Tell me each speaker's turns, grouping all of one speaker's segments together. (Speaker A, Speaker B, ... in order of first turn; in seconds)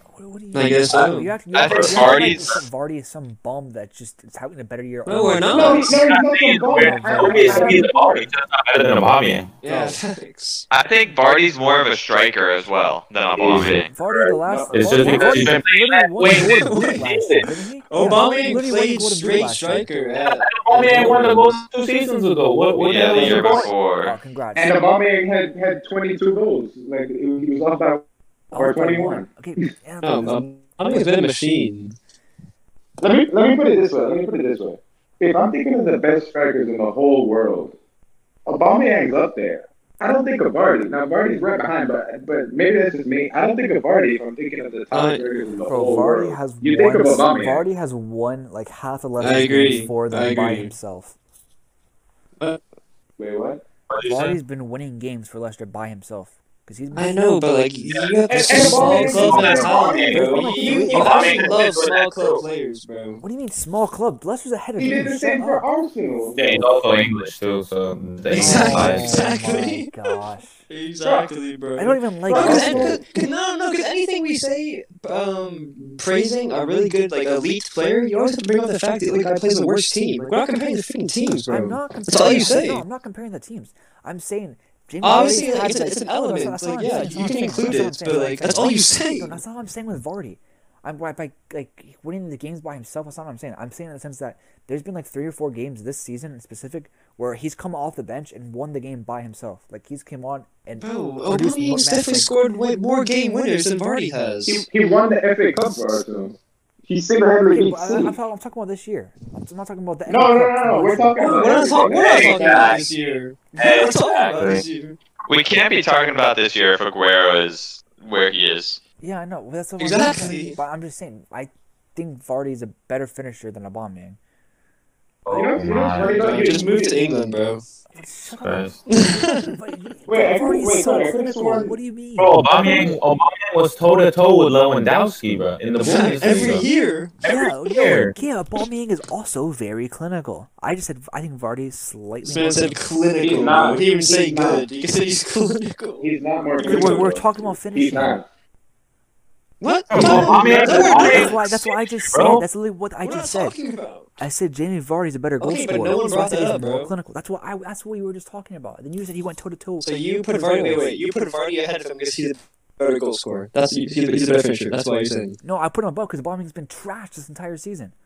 Speaker A: 0.1-5.9, 6.7-7.8, 9.6-10.0, 13.9-19.9, 24.0-24.8, 28.5-31.2, 45.6-51.1, 54.0-57.4, 60.1-61.2, 63.2-65.7, 68.3-70.6, 71.8-73.0, 81.5-102.3, 107.5-111.6, 119.0-124.2, 125.3-125.6, 127.9-132.9, 137.2-142.8, 146.6-148.2, 150.2-153.6, 154.2-160.9, 165.4-167.9
Speaker B: 0.5-1.4, 5.0-5.9, 9.6-10.7, 16.4-17.1, 17.9-21.6, 30.0-32.0, 44.9-45.2, 49.2-50.7, 56.9-63.2, 68.3-69.9, 70.7-82.8, 85.0-89.4, 100.8-104.7, 111.2-115.0, 119.8-120.6, 126.1-127.6, 128.9-129.5, 135.8-137.1, 142.2-147.1, 149.6-151.6, 153.0-154.2, 155.4-156.9, 159.8-165.4
Speaker C: 1.5-2.6, 10.7-13.9, 22.8-24.1, 112.0-112.8, 115.3-118.8
Speaker D: 1.8-2.1, 5.6-9.5, 13.4-17.5, 20.2-23.7, 53.9-54.4, 57.9-62.4, 66.3-69.3, 112.0-112.4, 113.6-114.6, 125.2-126.3, 128.3-128.8, 132.2-136.7, 137.2-138.1, 149.9-152.4
Speaker E: 5.5-8.3, 14.4-15.5, 24.5-29.3, 33.0-37.8, 38.5-47.6, 53.2-53.6, 58.3-60.5, 64.8-66.7, 71.0-71.3, 72.3-73.0, 104.5-108.1, 110.0-112.8, 125.3-127.0, 130.1-131.7, 143.2-144.7, 146.0-148.2